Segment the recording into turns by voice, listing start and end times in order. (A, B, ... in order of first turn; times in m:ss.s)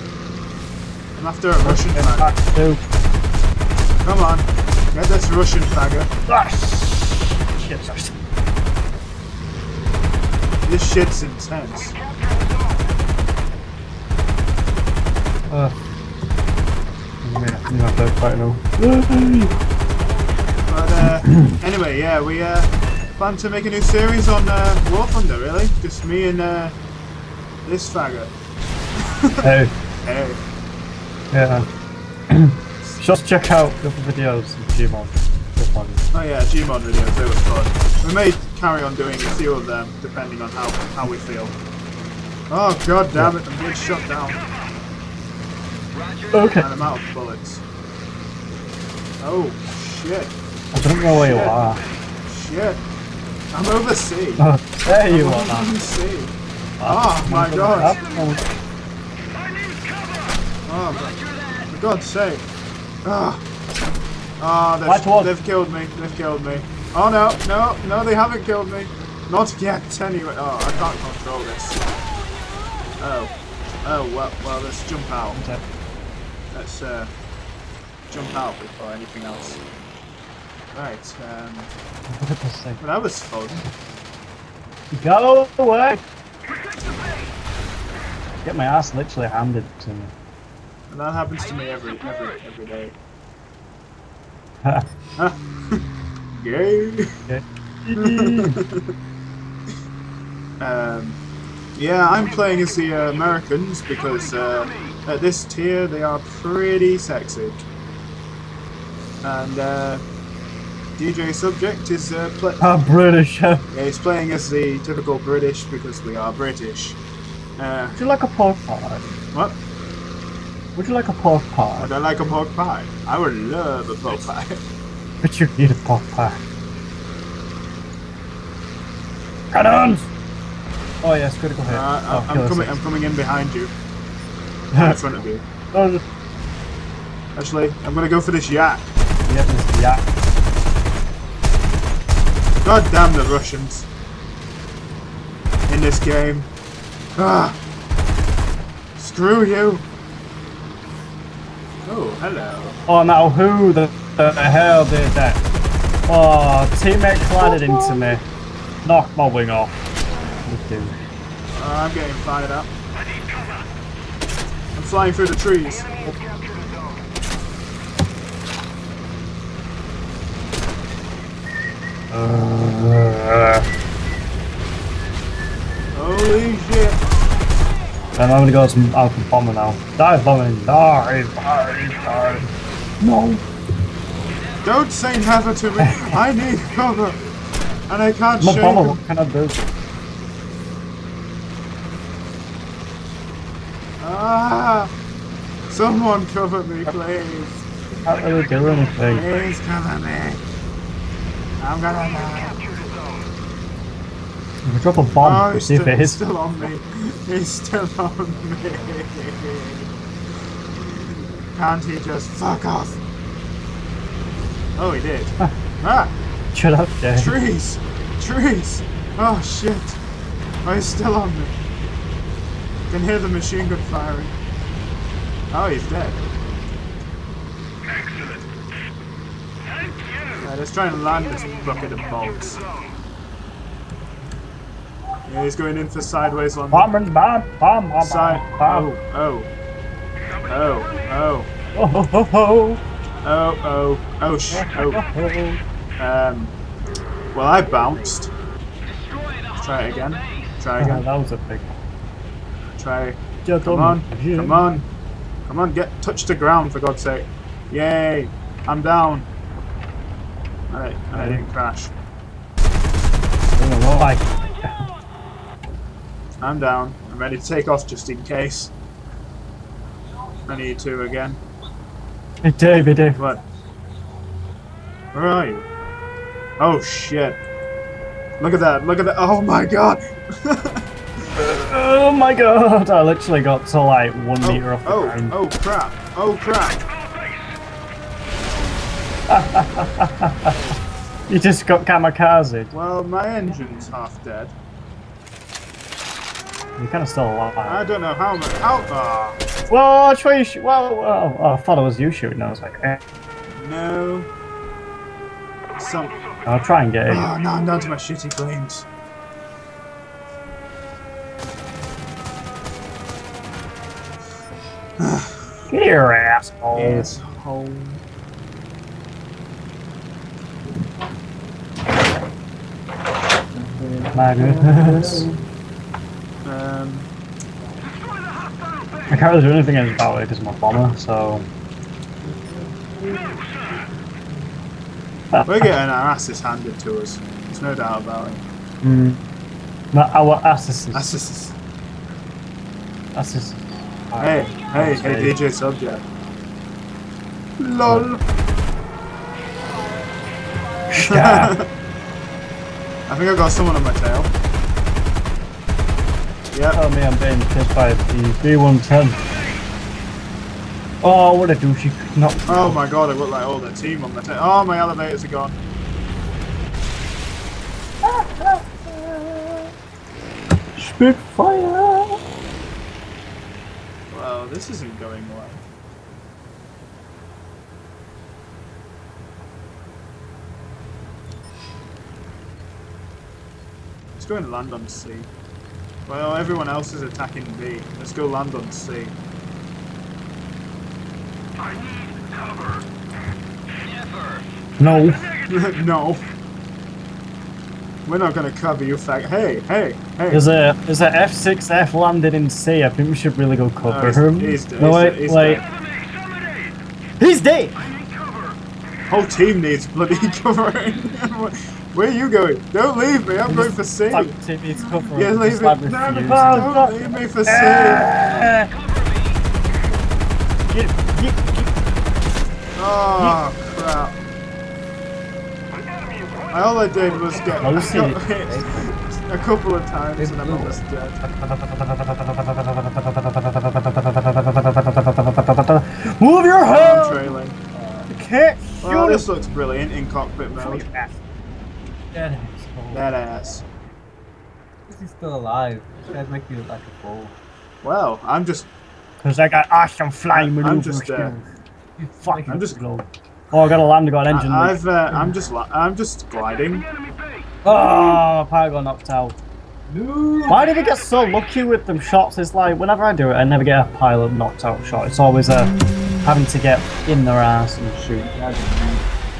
0:01.2-0:02.3 A
0:01.6-0:02.8 B
0:04.0-0:06.1 A
0:06.3-0:08.2 B
0:10.6-0:12.0 A
0:15.5-0:15.8 B
0:17.2-0:19.5 B
0:20.7-0:26.8 A
0:21.2-0:21.6 B
0:27.6-0:28.3 A
0:29.0-0:29.5 A
0:29.4-0:29.7 B
0:30.0-0:30.4 A
0:31.3-0:31.7 B
0:32.3-0:36.0 B
0:36.1-0:41.6 A
0:42.5-0:44.4 A
0:46.3-0:46.7 B
0:46.6-0:47.6 A
0:49.2-0:50.4 A
0:50.7-0:51.8 B
0:51.1-0:51.6 A
0:52.2-0:52.8 A
0:53.5-0:54.4 A
0:54.4-0:55.7 B
0:55.1-0:58.0 A
0:56.8-0:58.4 B
1:00.7-1:02.4 A
1:03.0-1:03.4 A
1:04.4-1:11.8 A
1:04.9-1:05.3 B
1:13.0-1:15.4 A
1:15.3-1:15.6 B
1:16.5-1:17.1 A
1:18.1-1:19.6 A
1:20.7-1:21.7 A
1:22.1-1:22.8 B
1:22.8-1:23.7 A
1:24.9-1:26.0 B
1:28.4-1:30.1 B
1:30.9-1:33.0 A
1:34.6-1:34.9 B
1:35.2-1:35.8 A
1:36.3-1:37.2 A
1:37.3-1:38.6 B
1:38.0-1:38.9 A
1:40.6-1:41.2 A
1:41.8-1:47.6 A
1:49.2-1:50.0 A
1:51.0-1:52.7 A
1:52.6-1:53.7 B
1:53.7-1:57.0 A
1:57.6-1:58.0 A
1:58.0-1:59.1 B
2:00.8-2:01.9 B
2:01.8-2:04.6 A
2:05.2-2:06.4 B
2:09.5-2:10.1 B
2:11.0-2:12.8 B
2:11.7-2:13.7 A
2:14.7-2:15.0 B
2:14.8-2:15.4 A
2:15.7-2:16.0 B
2:17.4-2:18.9 A
2:19.3-2:20.0 B
2:22.6-2:23.9 A
2:25.7-2:26.5 A
2:27.2-2:27.6 A
2:29.0-2:29.8 A
2:31.8-2:32.8 A
2:32.9-2:35.4 B
2:36.1-2:38.3 B
2:38.8-2:39.8 B
2:40.4-2:41.0 B
2:41.5-2:42.7 A
2:44.8-2:46.2 A
2:52.1-2:53.7 B
2:55.9-2:57.0 A
2:58.2-3:03.4 B
3:04.6-3:07.2 A
3:05.8-3:06.2 B
3:07.9-3:09.0 A
3:08.4-3:09.6 B
3:14.0-3:14.9 A
3:15.7-3:17.7 A
3:18.1-3:19.3 B
3:19.1-3:20.4 A
3:21.6-3:22.7 A
3:24.6-3:26.2 B
3:25.2-3:30.0 A
3:30.7-3:33.0 A
3:34.8-3:36.1 A
3:36.5-3:37.3 B
3:37.2-3:40.0 A
3:40.6-3:41.5 A
3:42.9-3:44.4 A
3:45.5-3:46.2 A
3:50.4-3:52.6 A
3:55.3-3:56.9 A
3:56.7-3:58.9 B
3:58.0-3:59.5 A
4:00.5-4:01.5 A
4:01.8-4:02.8 B
4:03.2-4:05.0 A
4:04.5-4:05.6 B
4:06.0-4:06.5 A
4:07.3-4:08.3 A
4:09.5-4:11.0 A
4:10.8-4:11.7 B
4:12.8-4:14.9 A
4:13.4-4:14.6 B
4:15.5-4:19.3 A
4:20.7-4:21.9 A
4:21.1-4:21.4 B
4:23.6-4:24.8 B
4:26.4-4:28.7 A
4:30.5-4:31.4 A
4:32.4-4:33.2 B
4:33.0-4:33.4 A
4:35.1-4:35.7 A
4:36.6-4:37.4 A
4:38.4-4:40.9 A
4:41.4-4:45.4 B
4:44.4-4:46.8 A
4:49.3-4:50.7 B
4:51.3-4:52.7 B
4:52.7-4:54.5 A
4:56.8-4:57.8 B
4:57.7-4:59.4 A
4:59.7-5:03.0 B
5:03.5-5:04.3 A
5:05.8-5:06.2 A
5:06.5-5:07.3 B
5:07.1-5:08.9 A
5:15.0-5:15.5 A
5:15.7-5:17.1 B
5:16.7-5:18.0 A
5:23.5-5:25.4 C
5:24.1-5:25.3 B
5:26.4-5:27.1 A
5:29.1-5:31.5 B
5:32.2-5:33.6 C
5:35.3-5:35.7 B
5:35.5-5:38.4 A
5:38.8-5:39.2 B
5:39.9-5:41.1 B
5:40.9-5:41.6 A
5:43.2-5:45.4 B
5:44.2-5:46.0 A
5:47.6-5:48.2 A
5:50.9-5:51.6 B
5:51.0-5:51.7 A
5:53.1-5:54.3 A
5:56.5-5:56.8 A
5:56.7-5:59.2 B
6:01.0-6:02.8 B
6:02.5-6:05.6 A
6:08.0-6:09.7 B
6:10.8-6:12.2 B
6:14.1-6:15.6 A
6:24.2-6:25.3 A
6:26.1-6:29.2 A
6:34.8-6:35.3 B
6:35.5-6:36.3 A
6:38.0-6:40.4 A
6:40.3-6:45.6 B
6:43.9-6:45.7 A
6:47.2-6:47.8 B
6:49.1-6:54.3 A
6:53.5-6:58.7 B
6:54.8-6:58.1 A
7:00.7-7:01.7 B
7:02.8-7:04.2 A
7:06.5-7:11.2 A
7:07.4-7:09.0 C
7:07.5-7:08.2 B
7:10.2-7:10.8 C
7:11.2-7:17.4 B
7:16.7-7:17.6 A
7:17.7-7:18.1 C
7:18.1-7:19.2 B
7:18.8-7:20.8 A
7:20.6-7:21.2 B
7:22.1-7:23.1 B
7:22.9-7:23.6 A
7:24.9-7:27.4 C
7:27.8-7:28.7 A
7:29.2-7:31.5 B
7:30.3-7:31.3 A
7:32.0-7:32.7 C
7:32.2-7:34.8 B
7:32.5-7:32.8 A
7:34.3-7:36.9 A
7:37.6-7:39.4 B
7:39.9-7:40.7 C
7:40.5-7:48.3 B
7:48.2-7:49.0 C